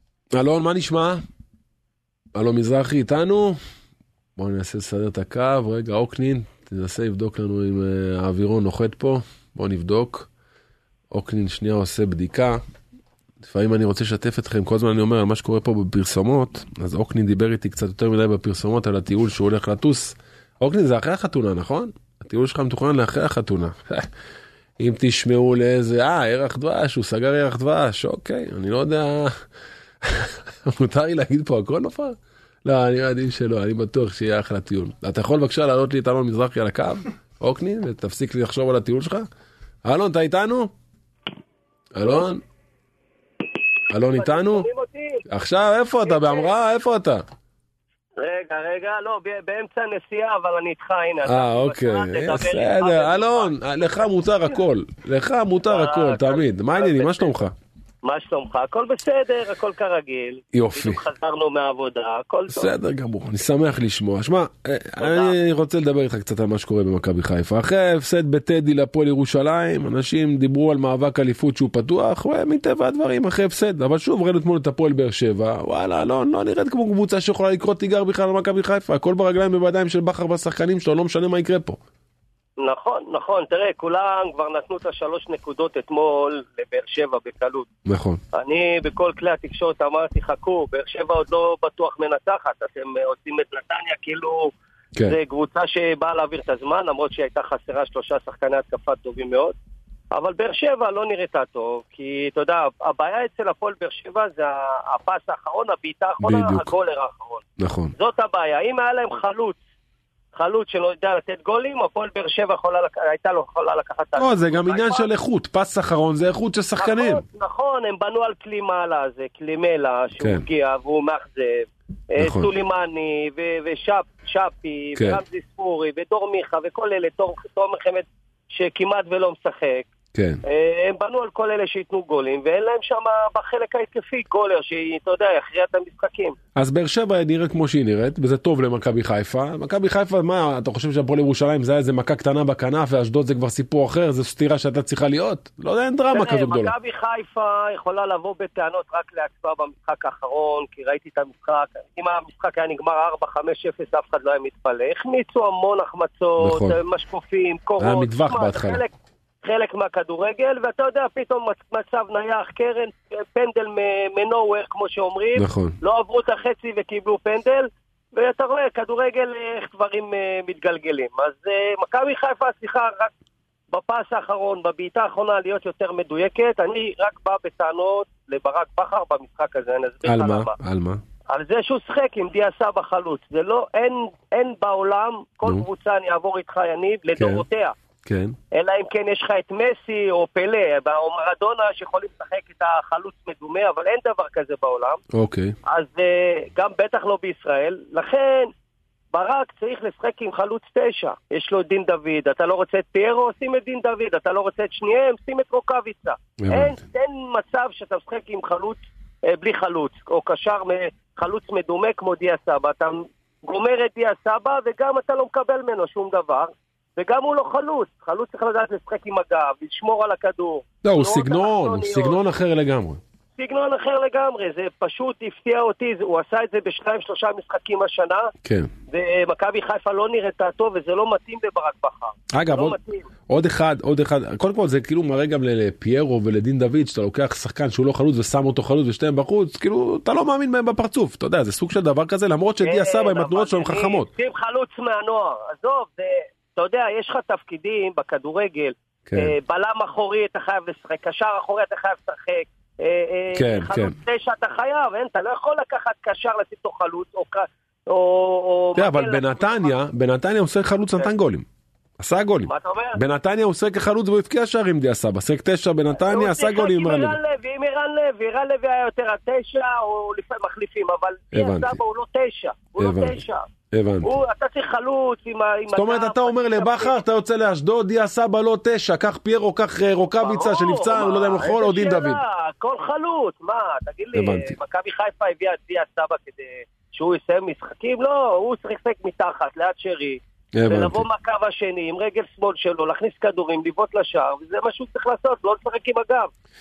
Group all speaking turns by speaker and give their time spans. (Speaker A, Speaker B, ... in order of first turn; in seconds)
Speaker A: 0.3-1.2, 2.3-3.6, 4.4-10.3, 11.1-12.6, 13.4-24.1, 24.8-29.4, 30.0-39.2, 39.8-40.7, 41.9-42.4, 43.9-44.7, 45.3-47.2, 51.2-57.5, 60.5-61.0, 62.5-81.8, 87.9-88.2, 106.2-106.7, 107.6-107.9, 114.2-117.2, 120.2-120.5, 122.2-122.5, 130.1-130.4, 136.6-146.7, 156.4-156.8, 157.8-158.8, 165.3-165.7, 180.0-181.0, 187.2-187.4, 188.0-188.3, 195.1-195.5, 206.4-206.7, 220.8-223.0, 228.4-228.7, 232.3-232.8, 233.3-244.1, 249.1-249.3, 253.3-253.9, 258.7-261.4, 262.0-267.2, 271.3-271.8, 272.8-273.2, 273.7-274.1, 275.7-282.2, 284.1-284.6, 290.5-291.1
Speaker B: 44.1-45.2, 46.0-46.5, 48.2-53.5, 55.6-57.3, 58.0-62.7, 65.0-65.4, 82.6-87.7, 88.3-94.5, 95.0-99.5, 100.1-107.4, 107.9-109.6, 110.3-115.1, 116.8-129.9, 130.4-136.4, 146.1-173.1, 173.7-180.5, 181.3-187.7, 188.5-195.0, 195.7-198.5, 199.1-222.2, 223.3-228.3, 228.9-233.1, 242.6-259.8, 262.4-263.0, 265.9-273.5, 274.0-277.0, 280.2-296.3